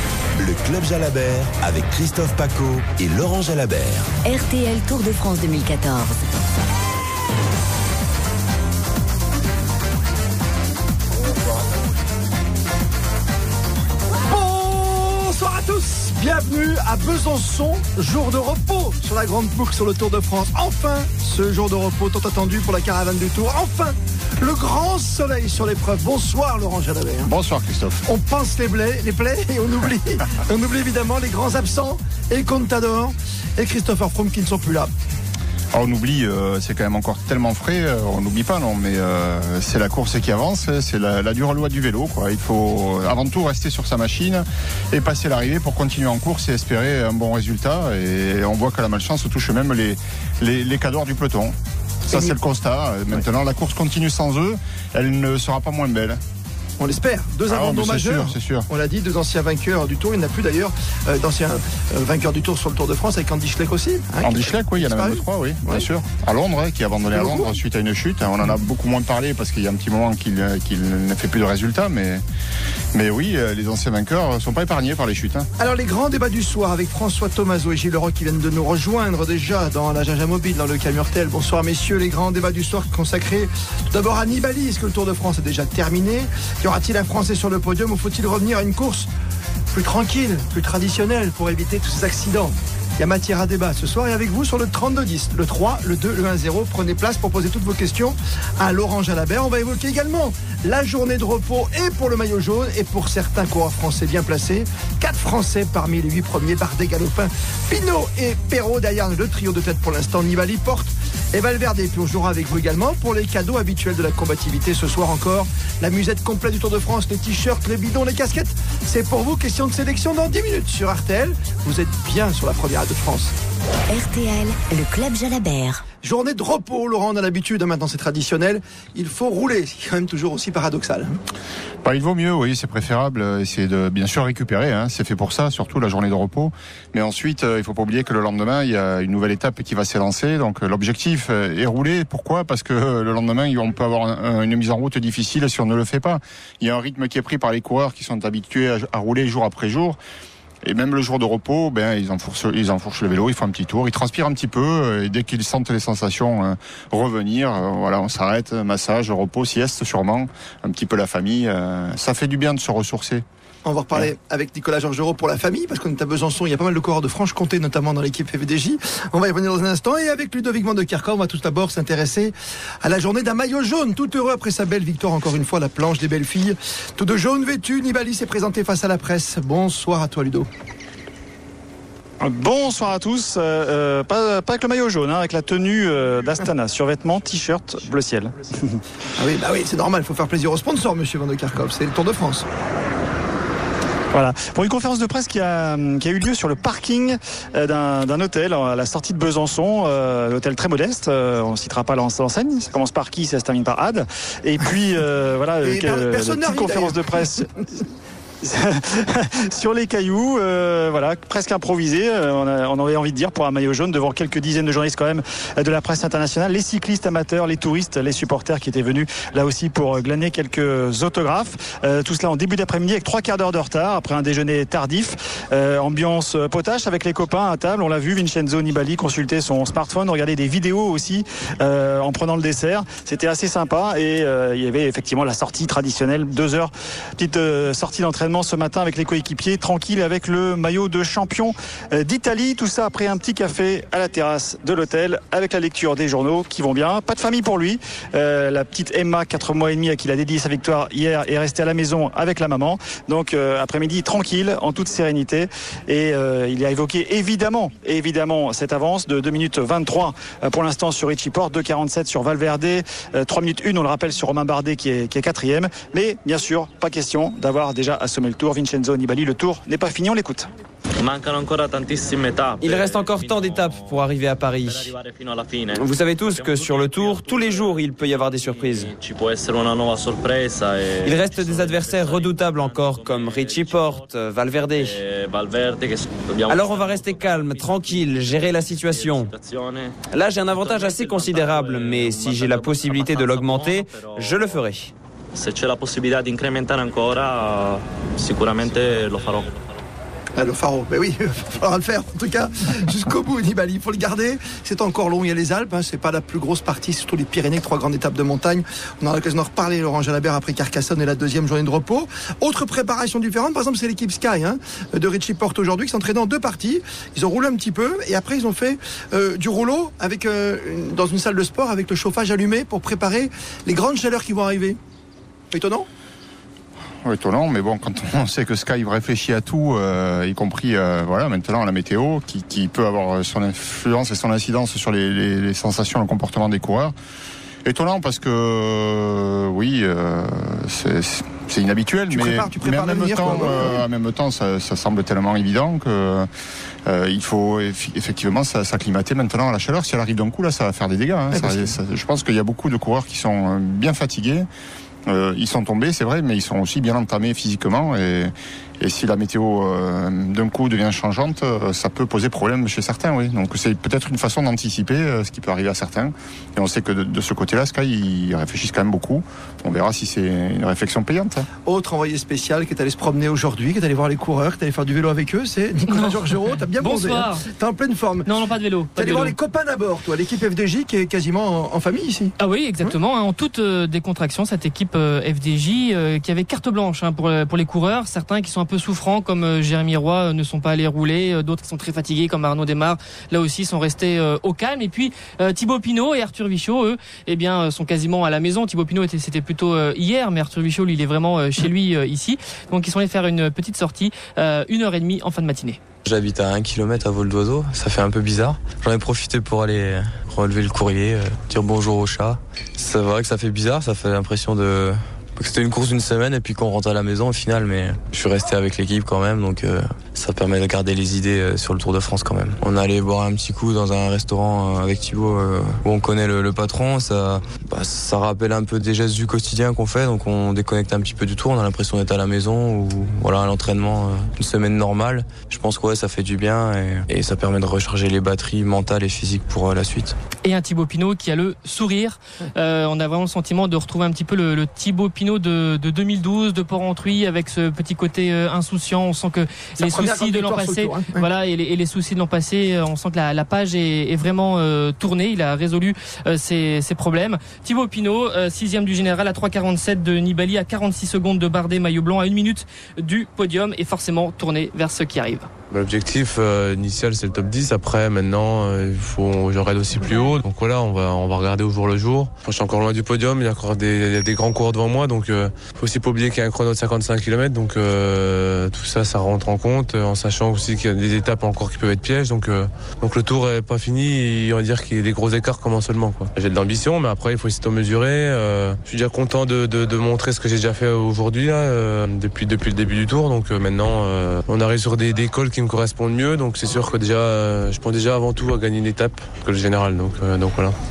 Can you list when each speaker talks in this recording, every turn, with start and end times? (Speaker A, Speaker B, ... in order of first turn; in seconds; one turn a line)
Speaker A: 0.4-4.1
Speaker B: 4.2-6.2
Speaker C: 14.3-27.3
Speaker D: 27.2-28.0
Speaker C: 28.1-34.9
Speaker D: 35.7-56.2
Speaker C: 52.1-52.4
Speaker C: 56.8-65.8
Speaker D: 57.5-58.7
Speaker D: 64.2-72.2
Speaker C: 67.1-67.6
Speaker D: 72.9-75.5
Speaker C: 75.6-89.1
Speaker C: 89.7-123.3
Speaker B: 123.9-125.8
Speaker C: 126.0-131.2
Speaker D: 131.8-150.0
Speaker D: 150.6-163.2
Speaker C: 163.6-180.5
Speaker E: 182.2-188.8
Speaker C: 189.2-192.5
Speaker E: 194.1-207.5
Speaker C: 205.6-207.5
Speaker E: 208.4-270.5
Speaker F: 271.0-274.1
Speaker G: 272.6-275.0
Speaker F: 274.6-277.8
Speaker G: 275.7-278.9
Speaker F: 278.4-294.5
Speaker G: 281.0-285.0
Speaker G: 286.5-289.3
Speaker G: 290.1-294.9
Speaker F: 295.4-299.5
Speaker C: 300.4-324.8
Speaker C: 325.5-325.9
Speaker D: 327.0-336.9
Speaker D: 337.6-346.3
Speaker C: 342.1-343.8
Speaker D: 346.9-354.5
Speaker C: 351.3-351.8
Speaker D: 355.1-371.5
Speaker C: 371.6-378.3
Speaker H: 375.9-377.5
Speaker H: 378.2-379.4
Speaker C: 378.9-382.9
Speaker H: 382.4-405.8
Speaker I: 406.1-440.2
Speaker H: 440.4-465.5
Speaker C: 449.8-451.3
Speaker J: 465.7-500.8